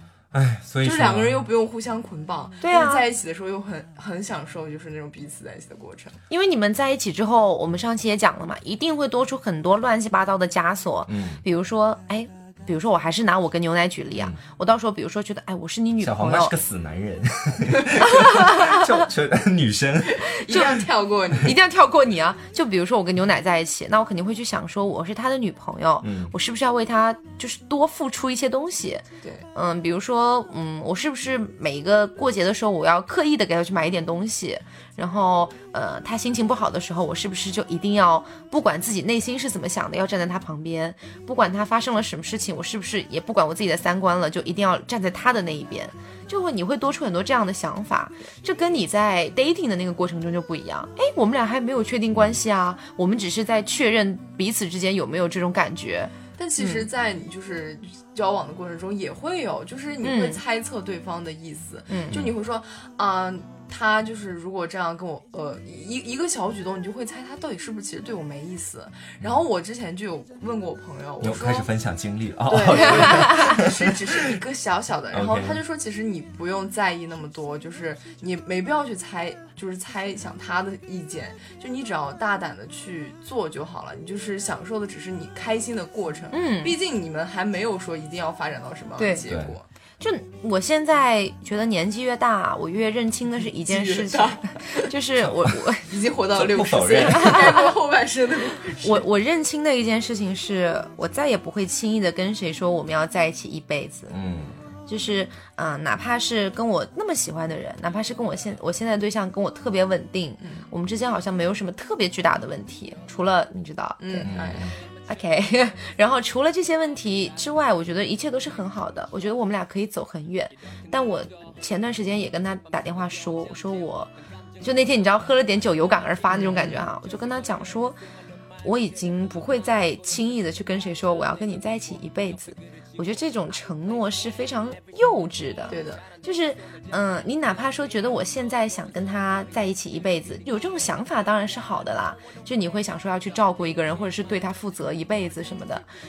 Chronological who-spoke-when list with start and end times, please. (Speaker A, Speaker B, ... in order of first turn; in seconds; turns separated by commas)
Speaker A: 0.3-1.5, Speaker B: 0.8-6.2, Speaker C: 2.6-3.0, Speaker C: 6.3-16.5, Speaker A: 11.1-11.4, Speaker A: 16.0-20.3, Speaker C: 18.0-19.0, Speaker B: 20.1-21.6, Speaker C: 20.5-20.8, Speaker C: 21.4-56.9, Speaker A: 26.0-26.3, Speaker B: 56.4-71.7, Speaker C: 60.0-60.4, Speaker C: 61.9-62.2, Speaker A: 71.2-74.4, Speaker B: 72.5-89.6, Speaker C: 72.7-73.6, Speaker A: 75.1-75.6, Speaker C: 86.3-86.8, Speaker C: 89.0-89.3, Speaker A: 89.2-89.5, Speaker C: 90.0-95.9, Speaker B: 93.5-94.9, Speaker A: 95.2-95.5, Speaker B: 95.8-99.0, Speaker A: 96.3-97.6, Speaker C: 97.0-97.7, Speaker C: 98.8-104.1, Speaker A: 104.1-104.5, Speaker C: 104.9-114.4, Speaker B: 110.4-110.7, Speaker B: 114.0-114.7, Speaker A: 114.2-114.7, Speaker C: 115.1-124.1, Speaker C: 124.6-128.0, Speaker B: 126.3-126.8, Speaker C: 128.6-145.8, Speaker B: 135.7-136.0